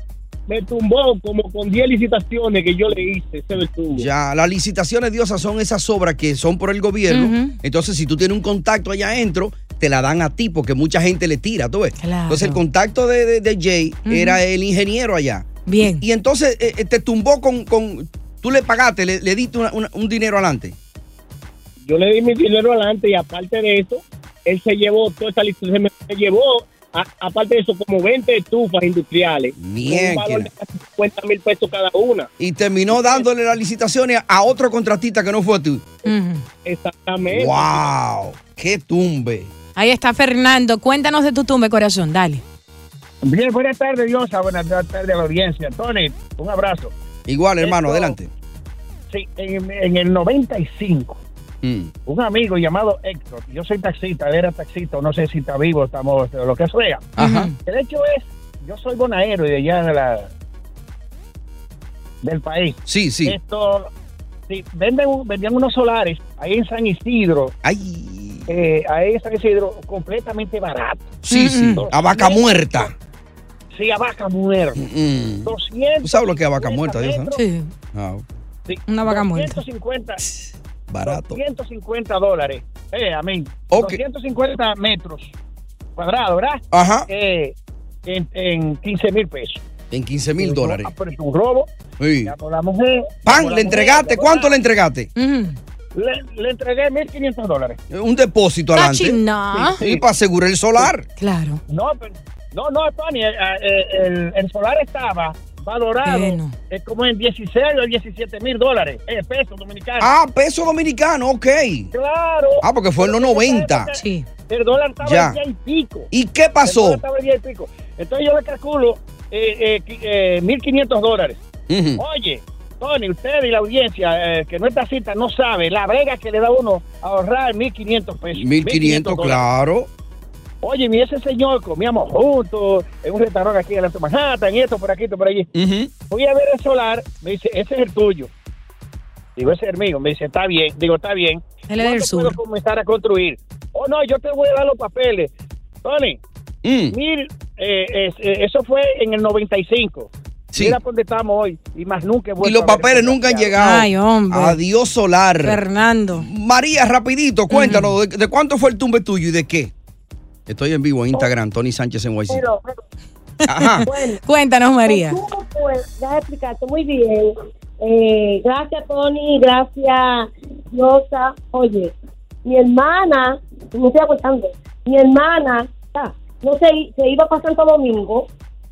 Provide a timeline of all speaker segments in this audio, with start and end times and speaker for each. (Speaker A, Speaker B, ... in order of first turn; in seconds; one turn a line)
Speaker A: 0.5-4.1
Speaker B: 3.9-20.8
Speaker C: 7.1-7.6
Speaker C: 12.0-12.6
Speaker C: 14.1-14.4
Speaker C: 15.7-16.1
Speaker A: 21.9-32.3
Speaker B: 29.6-30.5
Speaker B: 32.4-35.9
Speaker C: 36.1-36.4
Speaker A: 36.6-37.8
Speaker B: 37.3-39.5
Speaker C: 39.8-42.4
Speaker D: 43.2-46.9
Speaker B: 47.3-48.3
Speaker D: 47.6-48.2
Speaker D: 49.1-51.2
Speaker B: 51.6-51.9
Speaker D: 52.1-60.3
Speaker B: 57.2-57.5
Speaker C: 57.2-57.5
Speaker D: 62.2-63.9
Speaker B: 62.9-63.4
Speaker D: 64.5-67.5
Speaker B: 67.6-68.5
Speaker D: 68.5-72.9
Speaker B: 71.2-73.0
Speaker C: 71.3-71.8
Speaker D: 73.7-74.8
Speaker B: 74.8-77.4
Speaker D: 75.4-77.4
Speaker C: 77.3-77.7
Speaker B: 77.9-78.2
Speaker D: 78.7-80.2
Speaker C: 78.9-79.6
Speaker B: 80.9-81.4
Speaker D: 81.0-85.3
Speaker B: 83.7-84.0
Speaker D: 86.0-89.6
Speaker B: 86.7-87.1
Speaker B: 89.9-90.9
Speaker D: 90.4-91.7
Speaker B: 92.0-92.3
Speaker D: 92.2-94.6
Speaker B: 93.2-95.1
Speaker C: 95.2-95.6
Speaker D: 96.0-97.8
Speaker B: 97.9-99.2
Speaker C: 98.7-99.8
Speaker D: 99.5-100.0
Speaker B: 99.8-101.1
Speaker C: 101.2-101.6
Speaker D: 101.7-110.1
Speaker C: 106.0-106.5
Speaker B: 110.0-111.9
Speaker D: 111.9-116.1
Speaker B: 112.6-113.9
Speaker C: 114.0-114.3
Speaker B: 115.0-115.4
Speaker B: 116.1-117.0
Speaker D: 116.7-121.4
Speaker B: 121.7-122.0
Speaker D: 122.0-129.5
Speaker B: 128.3-129.9
Speaker D: 130.6-135.5
Speaker B: 135.5-135.9
Speaker D: 136.1-138.3
Speaker D: 139.4-145.3
Speaker C: 141.7-142.4
Speaker D: 145.8-146.2
Speaker B: 146.6-147.0
Speaker D: 146.9-153.6
Speaker B: 152.4-155.6
Speaker C: 153.6-154.6
Speaker C: 155.4-156.3
Speaker B: 156.2-159.7
Speaker C: 157.5-157.9
Speaker B: 160.5-162.5
Speaker E: 162.3-162.7
Speaker B: 163.4-163.9
Speaker C: 163.5-165.2
Speaker E: 163.8-164.2
Speaker E: 164.9-171.9
Speaker E: 172.4-178.3